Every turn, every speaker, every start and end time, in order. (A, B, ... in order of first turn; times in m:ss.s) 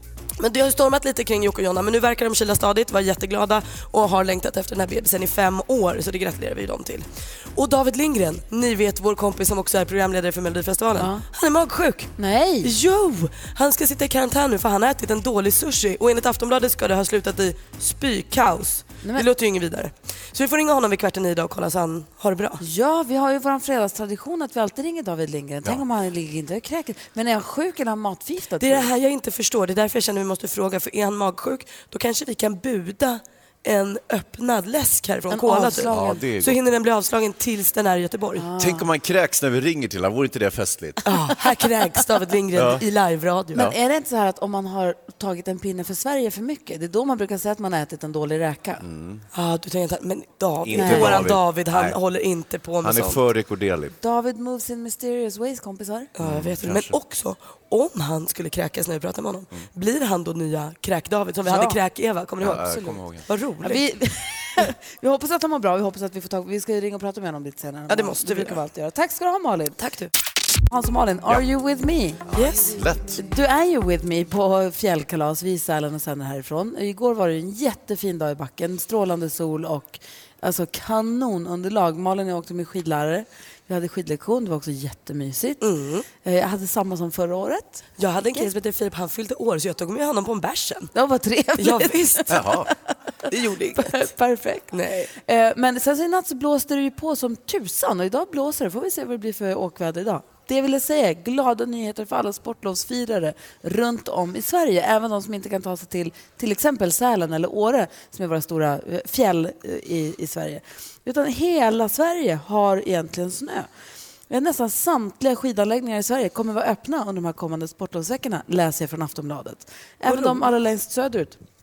0:00.4-0:22.6 A
0:11.0-0:11.2 B
0:12.2-0:12.7 B
0:22.6-0:28.9 B
0:28.6-0:38.5 A
0:35.3-0:36.2 B
0:35.8-0:36.6 C
0:38.4-0:38.9 B
0:38.6-0:41.0 C
0:41.0-0:43.7 A
0:42.6-0:42.8 C
0:43.6-0:48.8 B
0:48.8-0:49.2 C
0:49.3-0:53.2 A
0:50.6-0:52.0 C
0:50.8-0:51.3 B
0:52.8-0:54.0 C
0:54.0-0:56.1 B
0:56.2-1:03.8 A
0:56.2-0:57.0 C
1:01.5-1:01.8 B
1:02.4-1:03.2 C
1:03.6-1:09.8 B
1:07.9-1:08.6 A
1:09.8-1:10.1 A
1:10.7-1:12.2 B
1:12.3-1:13.2 C
1:12.3-1:12.8 A
1:13.2-1:25.6 B
1:25.6-1:26.1 A
1:26.2-1:28.5 B
1:28.0-1:30.9 A
1:31.0-1:32.7 B
1:31.6-1:32.4 A
1:32.3-1:32.7 C
1:33.3-1:34.1 A
1:33.8-1:53.7 B
1:34.7-1:35.1 A
1:54.3-2:01.4 B
2:00.1-2:00.5 A